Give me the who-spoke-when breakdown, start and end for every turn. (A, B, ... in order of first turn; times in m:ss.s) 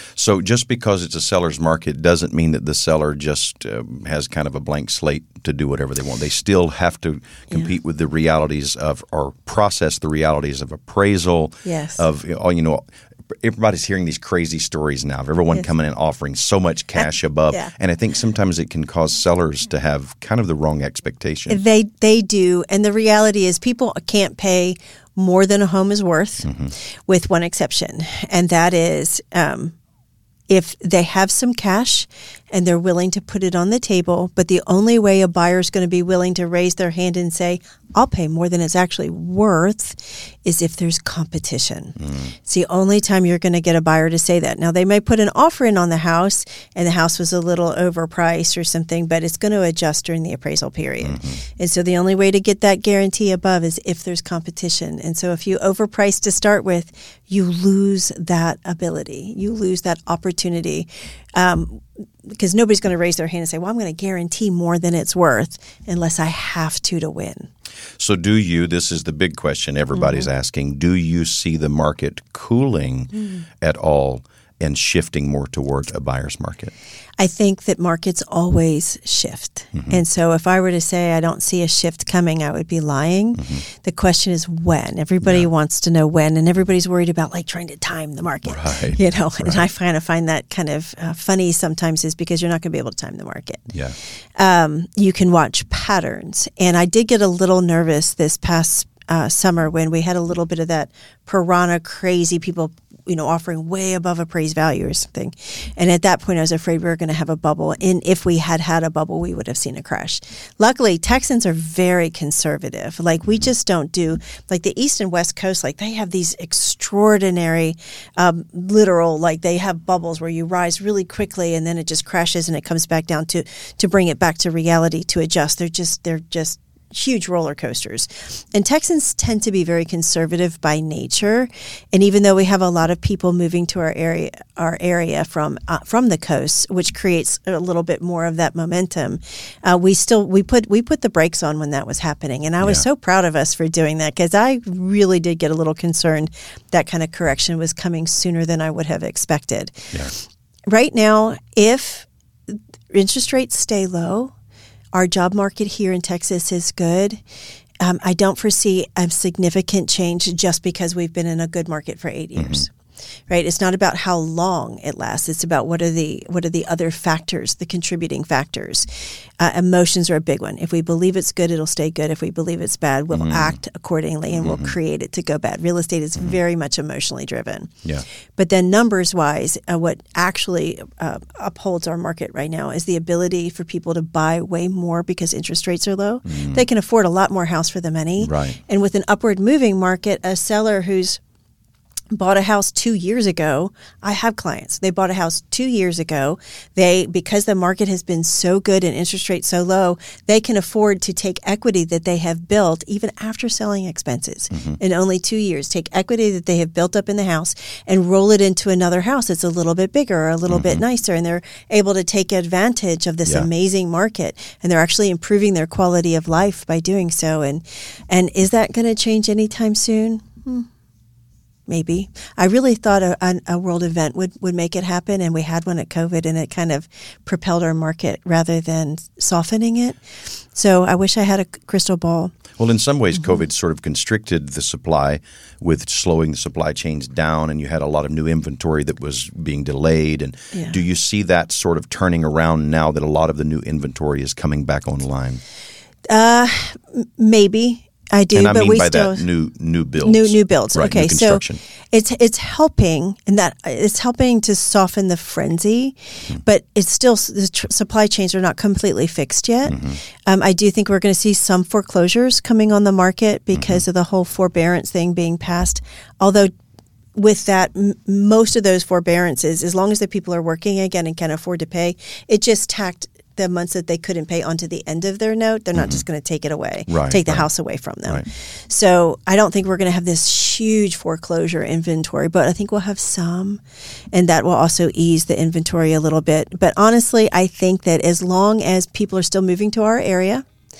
0:00.2-0:12.8 A
0:11.6-0:12.0 B
0:13.4-0:21.6 A
0:17.0-0:17.7 B
0:21.5-0:26.5 B
0:26.4-0:26.7 A
0:27.1-0:29.7 B
0:30.5-1:07.5 B
0:42.0-0:42.3 A
0:51.0-0:51.4 A
1:08.0-1:16.7 A
1:09.9-1:10.3 B
1:17.2-1:33.7 B
1:28.4-1:29.6 A
1:34.4-2:34.3 B
2:34.9-2:37.2 B
2:37.8-2:42.7 B
2:43.3-2:48.9 B
2:49.4-2:57.7 B
2:53.1-2:53.5 A
2:54.4-2:54.7 A
2:58.4-3:11.2 B
3:06.3-3:06.6 A
3:08.2-3:08.6 A
3:12.1-3:40.7 B
3:24.5-3:24.8 A
3:30.5-3:30.8 A
3:41.7-3:50.0 B
3:50.5-3:52.3 B
3:52.6-4:05.4 A
4:00.5-4:00.8 B
4:06.1-4:09.3 B
4:08.3-4:11.6 A
4:10.0-4:26.5 B
4:19.7-4:20.0 A
4:23.5-4:23.8 A
4:27.1-4:43.6 B
4:35.8-4:36.0 A
4:36.9-4:37.5 A
4:44.1-4:50.4 B